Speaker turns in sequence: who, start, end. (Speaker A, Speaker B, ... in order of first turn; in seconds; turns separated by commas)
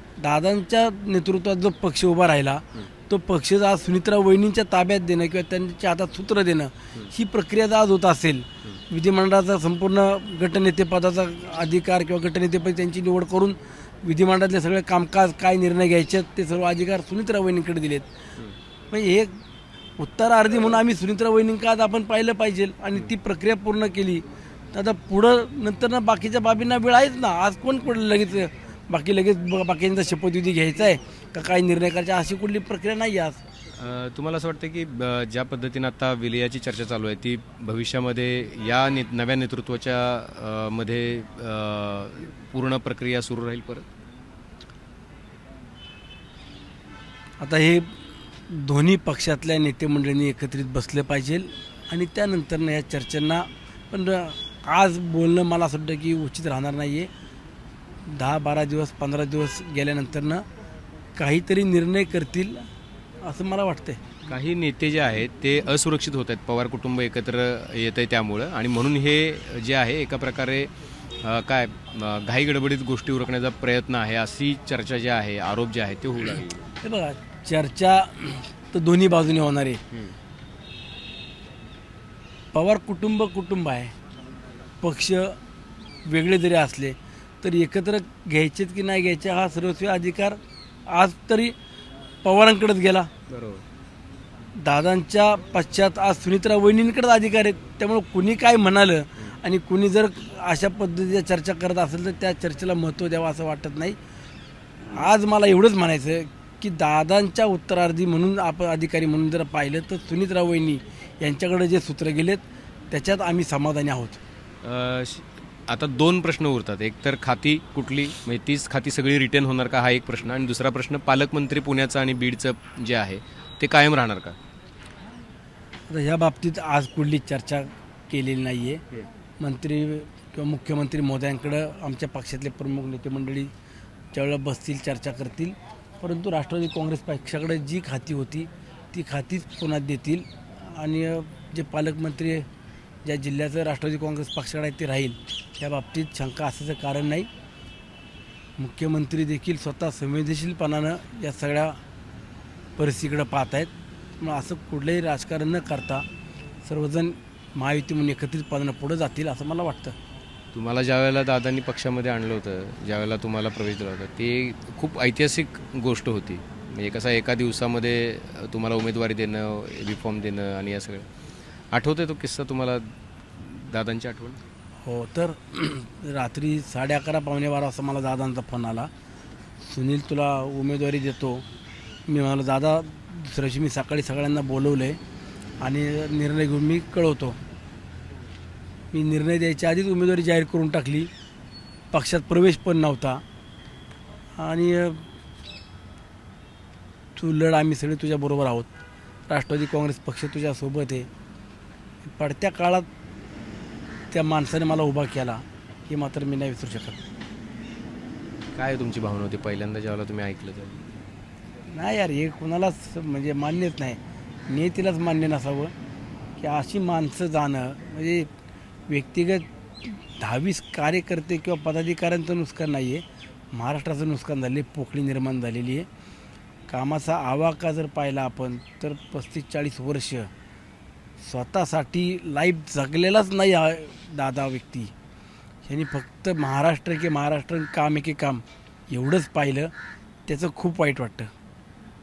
Speaker A: 0.2-18.1, Speaker A: 18.9-19.4, Speaker A: 20.0-33.4, Speaker B: 33.7-43.9, Speaker A: 47.4-57.1, Speaker A: 58.0-60.4, Speaker A: 61.1-62.7, Speaker A: 63.2-64.0, Speaker B: 64.3-70.7, Speaker B: 71.2-76.7, Speaker A: 76.8-79.8, Speaker A: 82.5-83.9, Speaker A: 84.8-85.4, Speaker A: 86.0-91.5, Speaker A: 92.2-93.1, Speaker B: 93.3-93.6, Speaker A: 94.6-104.0, Speaker A: 104.9-114.2, Speaker B: 114.6-124.3, Speaker A: 125.9-128.8, Speaker A: 129.4-133.5, Speaker A: 134.1-142.5, Speaker A: 143.0-147.3, Speaker A: 148.6-151.8, Speaker A: 152.8-156.1, Speaker A: 156.6-159.9, Speaker B: 160.5-171.1, Speaker B: 171.7-172.8, Speaker B: 173.4-174.4, Speaker A: 174.8-178.9, Speaker A: 179.6-181.4, Speaker A: 182.1-185.0, Speaker A: 185.6-187.4, Speaker A: 188.9-191.1, Speaker A: 191.9-193.2, Speaker A: 194.4-195.1, Speaker A: 197.1-198.7, Speaker A: 199.3-201.1, Speaker A: 202.0-202.9, Speaker A: 204.1-207.0, Speaker B: 208.5-210.8, Speaker A: 211.7-215.7, Speaker A: 216.4-218.3, Speaker A: 218.9-225.9, Speaker A: 226.7-230.3, Speaker A: 231.2-234.9, Speaker A: 235.7-239.7, Speaker A: 240.3-241.3